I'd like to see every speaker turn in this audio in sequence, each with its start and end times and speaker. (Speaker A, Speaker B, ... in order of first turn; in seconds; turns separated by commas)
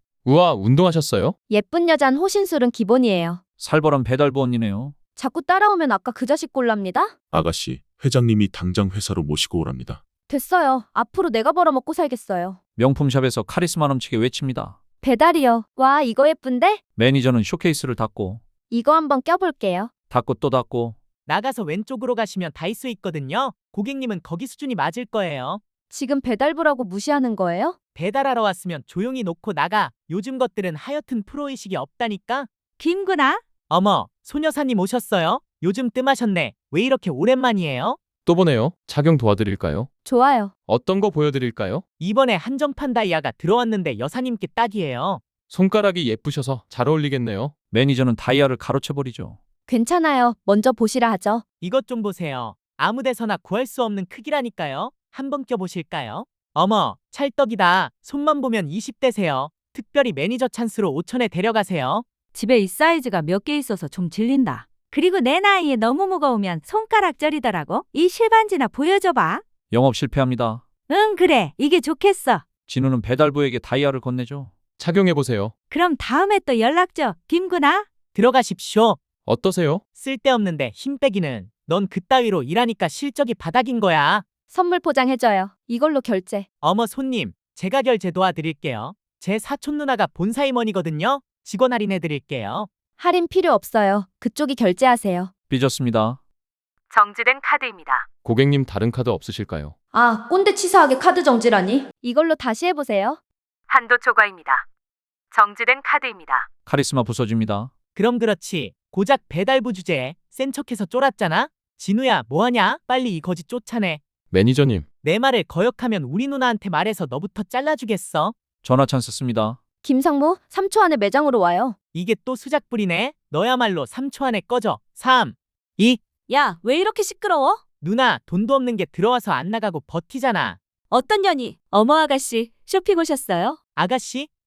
Speaker A: 0.2-1.4, Speaker B: 1.5-3.4, Speaker C: 3.6-4.9, Speaker B: 5.2-7.1, Speaker D: 7.3-10.0, Speaker B: 10.3-12.6, Speaker C: 12.8-14.8, Speaker B: 15.0-16.8, Speaker C: 16.9-18.4, Speaker B: 18.7-19.9, Speaker C: 20.1-21.0, Speaker E: 21.3-25.6, Speaker B: 25.9-27.8, Speaker E: 27.9-32.5, Speaker F: 32.8-33.4, Speaker E: 33.7-38.0, Speaker A: 38.2-39.9, Speaker B: 40.0-40.5, Speaker A: 40.7-41.8, Speaker E: 42.0-45.2, Speaker A: 45.5-47.5, Speaker C: 47.7-49.4, Speaker B: 49.7-51.4, Speaker E: 51.6-62.0, Speaker F: 62.3-69.5, Speaker C: 69.7-70.6, Speaker F: 70.9-72.5, Speaker C: 72.7-74.5, Speaker A: 74.8-75.5, Speaker F: 75.7-77.9, Speaker E: 78.1-79.0, Speaker A: 79.2-79.8, Speaker E: 80.0-84.2, Speaker B: 84.5-86.5, Speaker E: 86.6-92.7, Speaker B: 93.0-95.3, Speaker C: 95.5-96.2, Speaker F: 96.9-98.0, Speaker A: 98.2-99.7, Speaker B: 99.9-103.2, Speaker F: 103.7-104.5, Speaker F: 105.3-106.4, Speaker C: 106.7-107.7, Speaker E: 107.9-114.0, Speaker A: 114.3-114.8, Speaker E: 115.0-118.3, Speaker C: 118.6-119.6, Speaker B: 119.8-121.8, Speaker E: 121.9-126.0, Speaker F: 126.3-127.6, Speaker E: 127.8-130.6, Speaker F: 130.9-133.6, Speaker E: 133.8-134.3